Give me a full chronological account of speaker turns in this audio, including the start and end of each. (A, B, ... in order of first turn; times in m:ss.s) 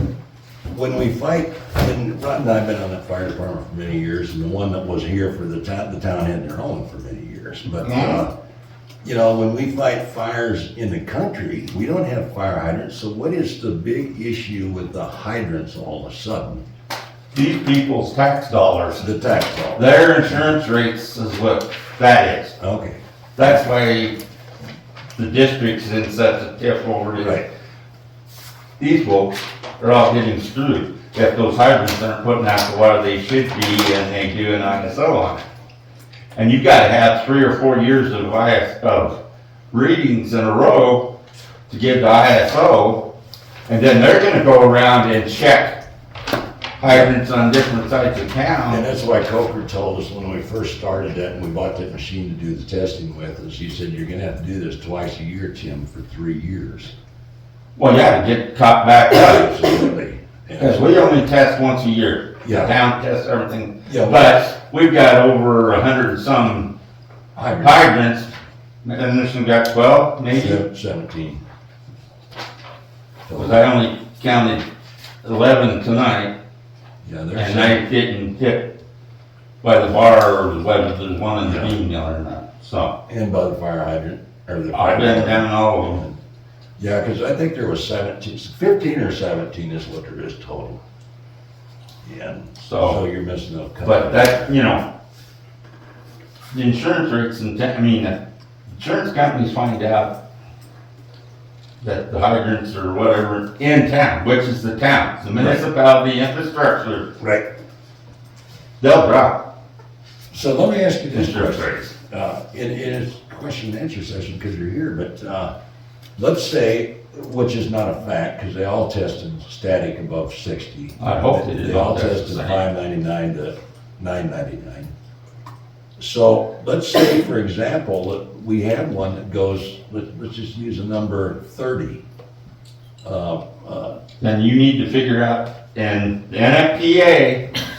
0:00.7-0:08.3 A
0:07.8-0:08.2 B
0:09.0-0:16.6 A
0:17.3-0:19.1 B
0:19.0-0:20.4 A
0:19.7-0:22.6 B
0:22.6-0:23.0 A
0:23.4-0:24.2 B
0:25.2-0:27.4 B
0:27.2-0:27.4 A
0:28.8-0:35.4 B
0:36.3-0:39.2 B
0:39.7-0:41.1 B
0:41.7-0:43.0 B
0:43.7-0:45.8 B
0:46.8-0:48.8 B
0:46.8-0:47.1 A
0:48.7-0:56.9 A
0:57.8-0:59.5 B
0:59.1-1:01.2 A
1:00.6-1:06.7 B
1:02.4-1:02.7 A
1:03.8-1:04.4 A
1:07.4-1:07.9 A
1:07.6-1:08.3 B
1:08.8-1:10.6 B
1:10.3-1:11.4 A
1:13.3-1:13.6 A
1:13.3-1:14.6 B
1:15.2-1:16.3 B
1:17.0-1:17.8 A
1:17.3-1:18.7 B
1:19.6-1:22.9 B
1:21.4-1:21.7 A
1:23.1-1:26.2 A
1:24.7-1:26.0 B
1:26.8-1:30.8 A
1:32.0-1:34.5 A
1:32.6-1:33.0 B
1:33.8-1:34.8 B
1:36.5-1:38.2 B
1:38.7-1:40.2 B
1:41.8-1:47.1 B
1:45.3-1:45.6 A
1:47.2-1:47.4 A
1:48.8-1:49.4 B
1:50.3-1:55.5 A
1:51.1-1:51.9 B
1:56.2-2:04.9 A
2:01.0-2:02.6 B
2:06.0-2:12.0 A
2:13.0-2:14.0 A
2:14.2-2:17.4 B